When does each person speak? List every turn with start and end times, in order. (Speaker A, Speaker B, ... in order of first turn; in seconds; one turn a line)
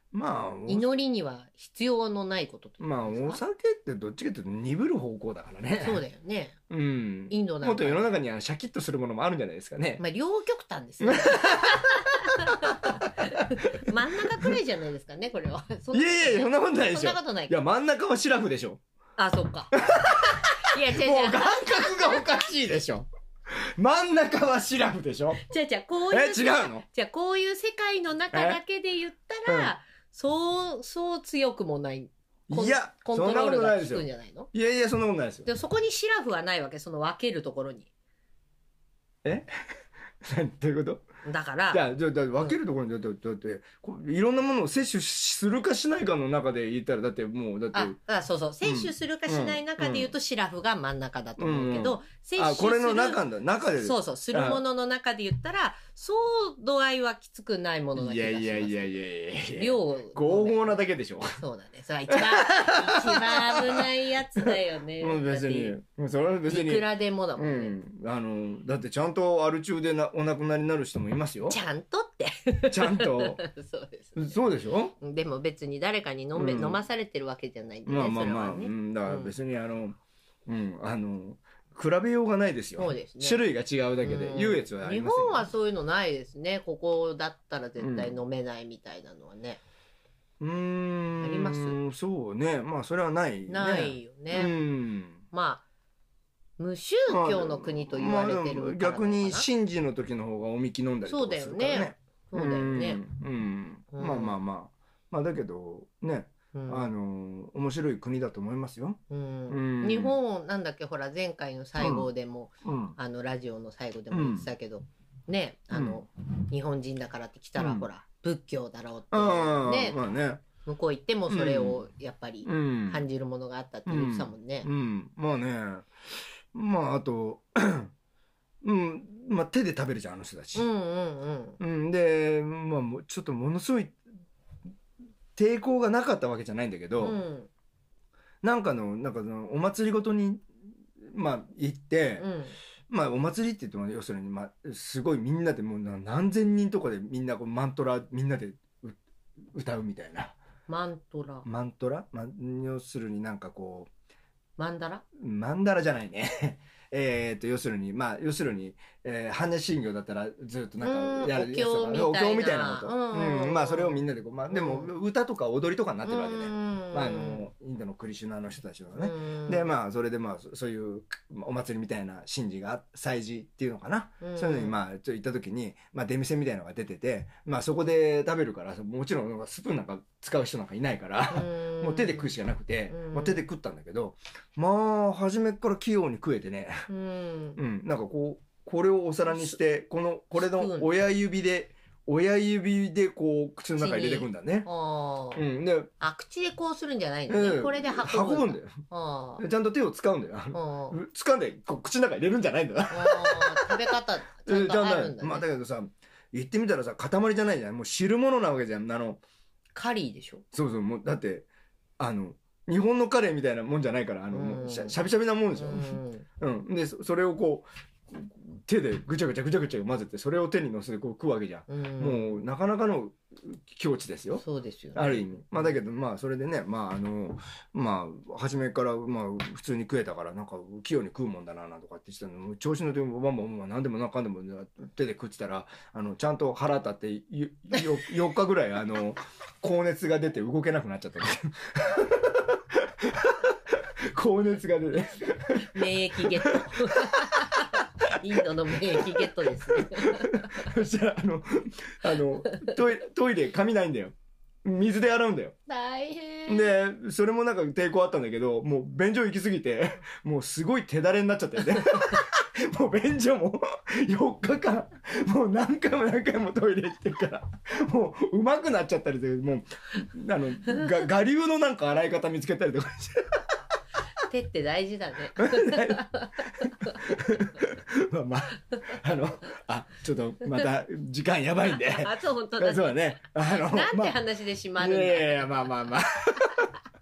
Speaker A: 0.1-0.9
Speaker B: 0.7-3.4
Speaker A: 2.8-6.0
Speaker B: 5.8-6.5
Speaker A: 6.7-10.0
Speaker B: 7.3-8.1
Speaker B: 10.0-17.5
Speaker A: 11.0-11.9
Speaker A: 15.9-18.8
Speaker B: 19.2-22.2
Speaker A: 19.7-23.1
Speaker A: 23.8-25.4
Speaker B: 25.4-34.5
Speaker A: 26.1-26.8
Speaker A: 28.3-28.6
Speaker A: 29.5-29.7
Speaker A: 32.5-35.5
Speaker B: 35.4-37.9
Speaker A: 40.2-41.0
Speaker B: 41.2-41.8
Speaker A: 41.7-48.0
Speaker B: 47.7-59.0
Speaker A: 48.6-50.1
Speaker A: 51.4-54.6
Speaker A: 58.0-61.4
Speaker B: 59.5-60.8
Speaker B: 61.4-65.8
Speaker A: 62.1-63.9
Speaker A: 65.0-71.6
Speaker B: 66.5-67.7
Speaker B: 71.5-74.3
Speaker A: 72.7-73.4
Speaker A: 74.2-74.9
Speaker B: 75.0-79.3
Speaker A: 76.3-76.8
Speaker A: 77.8-85.5
Speaker B: 82.8-83.4
Speaker B: 84.0-89.6
Speaker A: 87.8-88.2
Speaker A: 90.4-95.2
Speaker B: 91.2-91.8
Speaker B: 93.5-94.5
Speaker B: 95.3-95.6
Speaker B: 96.6-99.5
Speaker A: 97.1-110.2
Speaker B: 101.0-103.0
Speaker B: 103.9-104.4
Speaker B: 106.5-106.9
Speaker B: 109.1-120.0
Speaker A: 111.8-112.1
Speaker A: 112.6-113.0
Speaker A: 114.1-114.5
Speaker A: 115.7-116.0
Speaker A: 117.6-117.9
Speaker A: 119.1-120.4
Speaker B: 120.6-124.7
Speaker A: 121.3-121.8
Speaker A: 122.5-123.0
Speaker A: 123.8-125.9
Speaker A: 126.5-127.9
Speaker A: 128.6-130.7
Speaker B: 130.5-131.6
Speaker A: 131.6-134.0
Speaker A: 135.3-137.2
Speaker B: 137.0-137.5
Speaker A: 138.4-140.5
Speaker A: 141.0-142.3
Speaker B: 142.2-142.6
Speaker A: 142.9-149.0
Speaker A: 149.5-150.4
Speaker B: 150.7-151.4
Speaker A: 151.4-153.9
Speaker B: 154.6-155.0
Speaker A: 155.2-186.9
Speaker B: 160.8-164.9
Speaker B: 166.0-167.5
Speaker B: 168.9-169.7
Speaker B: 174.2-174.8
Speaker B: 181.3-182.3
Speaker B: 182.9-183.4
Speaker B: 186.9-187.6
Speaker A: 187.6-194.7
Speaker B: 189.3-189.6
Speaker B: 190.3-190.9
Speaker B: 193.8-195.4
Speaker A: 195.3-195.9
Speaker B: 196.0-199.4
Speaker A: 197.3-198.8
Speaker A: 199.4-203.9
Speaker B: 200.5-200.9
Speaker B: 202.9-205.4
Speaker A: 204.4-209.2
Speaker B: 209.7-210.4
Speaker A: 210.5-211.5
Speaker A: 212.0-224.4
Speaker B: 214.3-215.0
Speaker B: 215.5-216.2
Speaker B: 221.7-222.4
Speaker B: 224.4-225.7
Speaker A: 224.9-247.4
Speaker B: 245.7-250.7
Speaker A: 248.9-255.5
Speaker B: 255.7-256.8
Speaker A: 256.5-273.3
Speaker B: 274.2-277.0
Speaker A: 275.4-276.0
Speaker A: 276.6-284.2
Speaker B: 281.7-285.7
Speaker A: 284.8-286.6